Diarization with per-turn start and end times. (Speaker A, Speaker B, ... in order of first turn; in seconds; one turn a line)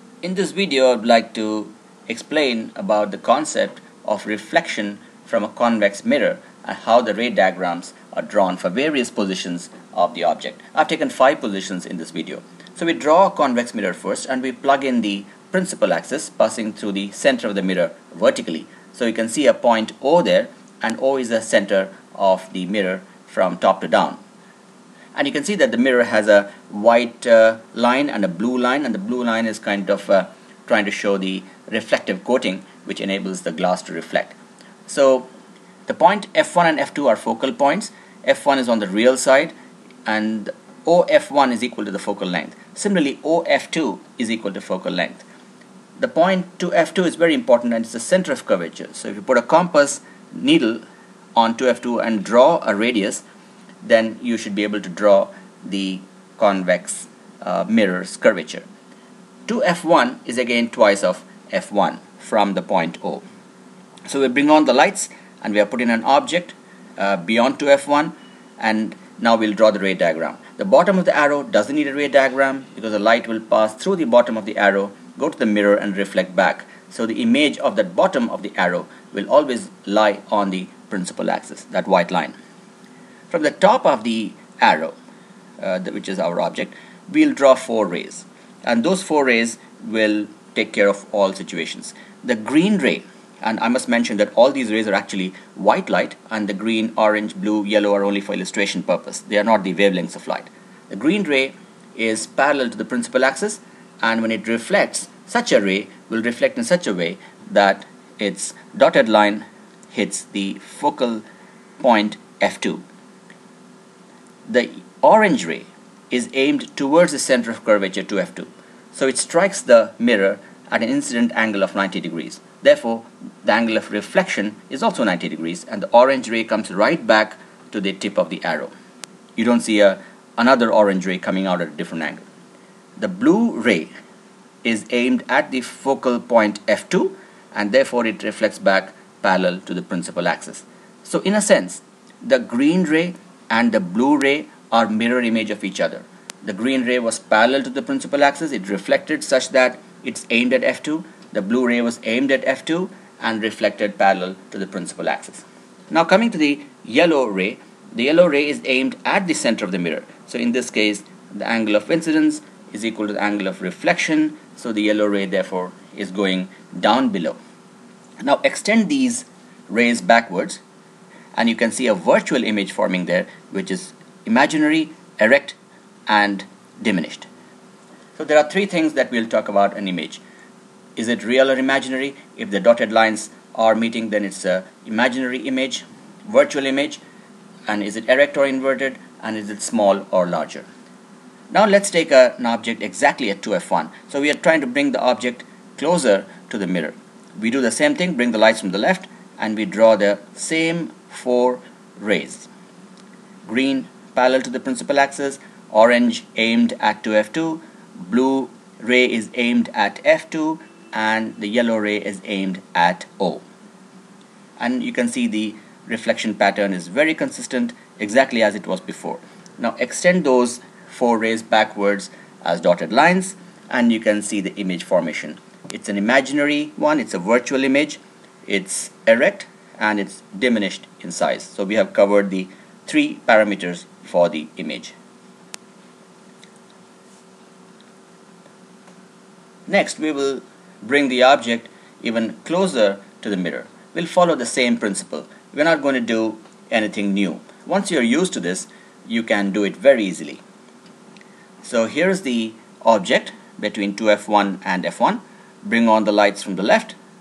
Speaker A: 0.2-24.2
Speaker A: 25.1-35.3
Speaker A: 35.9-39.5
Speaker A: 40.1-45.2
Speaker A: 46.0-50.8
Speaker A: 51.4-53.2
Speaker A: 53.8-58.7
Speaker A: 59.5-63.2
Speaker A: 64.1-82.4
Speaker A: 83.3-85.0
Speaker A: 85.6-111.2
Speaker A: 111.8-112.8
Speaker A: 114.5-128.7
Speaker A: 129.4-132.2
Speaker A: 133.0-133.9
Speaker A: 134.6-167.4
Speaker A: 168.2-170.6
Speaker A: 171.3-177.3
Speaker A: 178.2-180.2
Speaker A: 181.0-187.0
Speaker A: 187.7-190.7
Speaker A: 191.5-202.5
Speaker A: 203.5-213.4
Speaker A: 214.6-234.9
Speaker A: 239.7-250.4
Speaker A: 251.6-257.0